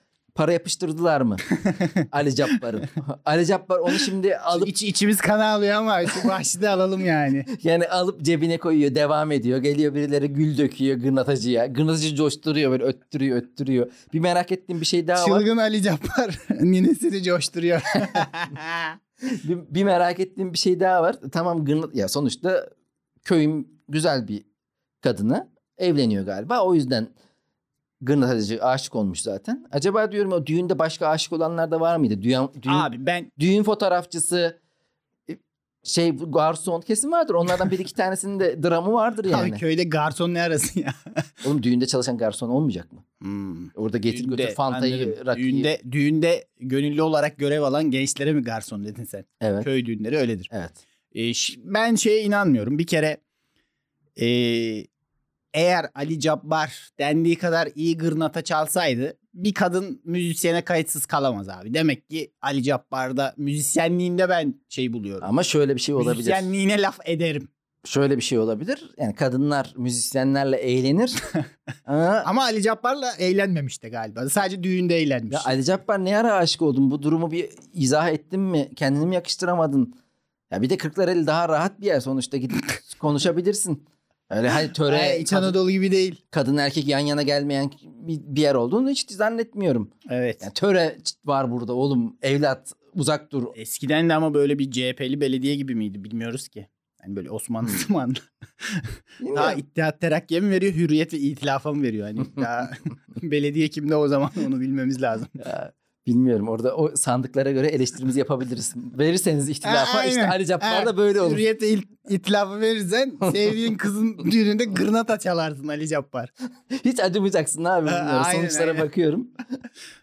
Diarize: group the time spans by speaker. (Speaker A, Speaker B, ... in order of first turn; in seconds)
Speaker A: 0.3-1.4, 2.1-4.7, 7.5-15.5, 19.2-22.7, 23.2-24.4, 25.0-27.1, 28.0-34.6, 35.3-39.6, 41.4-43.0, 43.8-45.7, 49.4-49.7, 50.5-50.8, 65.2-66.5, 67.8-71.2, 71.9-72.3, 75.3-80.0, 80.5-85.6, 86.3-93.5, 99.2-99.6, 105.4-111.4, 116.7-119.3
Speaker B: 1.6-2.0, 4.5-7.5, 15.2-19.0, 32.7-33.3, 39.3-41.0, 43.2-50.5, 51.1-53.2, 54.2-54.9, 55.5-65.3, 66.0-67.5, 72.2-75.5, 84.5-86.2, 90.1-90.5, 93.6-105.4, 109.6-116.3, 117.9-118.9